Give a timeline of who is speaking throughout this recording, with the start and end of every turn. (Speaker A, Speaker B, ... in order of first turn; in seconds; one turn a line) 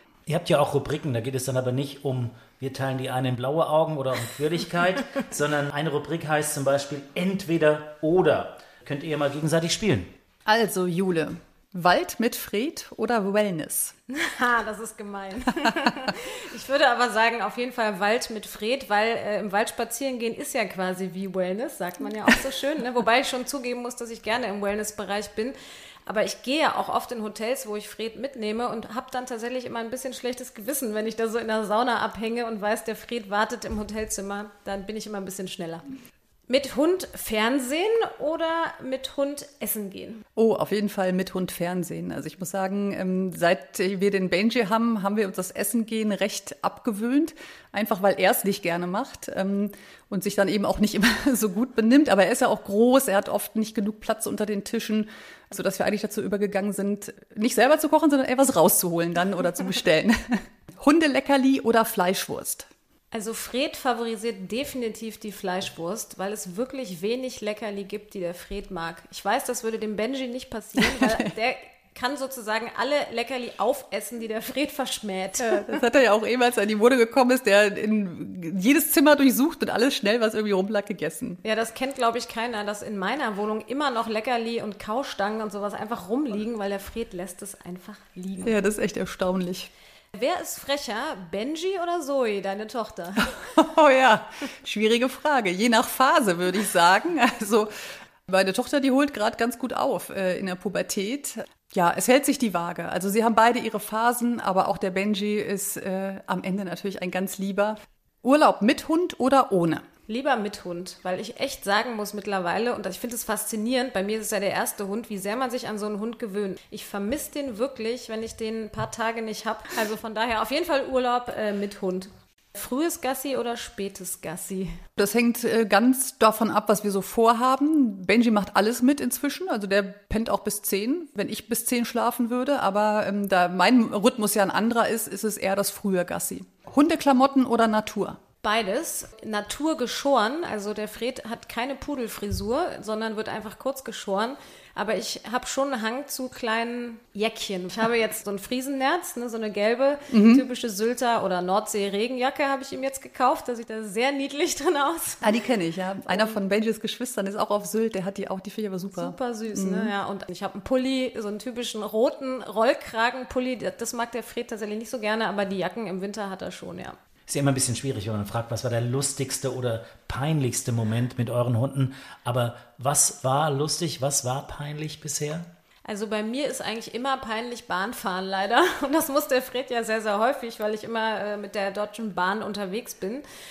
Speaker A: 0.3-10.1
Speaker B: 10.4-13.9
Speaker C: 14.1-25.6
Speaker C: 26.1-35.9
Speaker C: 36.5-40.2
Speaker B: 40.4-62.7
Speaker C: 63.1-75.8
Speaker B: 70.8-71.3
Speaker B: 75.4-81.4
Speaker C: 81.4-88.6
Speaker B: 88.4-89.7
Speaker C: 90.1-93.4
Speaker B: 93.5-97.7
Speaker B: 98.3-109.8
Speaker C: 110.1-124.8
Speaker B: 125.0-138.2
Speaker C: 138.4-155.4
Speaker B: 150.1-150.4
Speaker B: 155.2-159.9
Speaker C: 158.9-167.0
Speaker A: 167.3-175.4
Speaker C: 175.9-183.2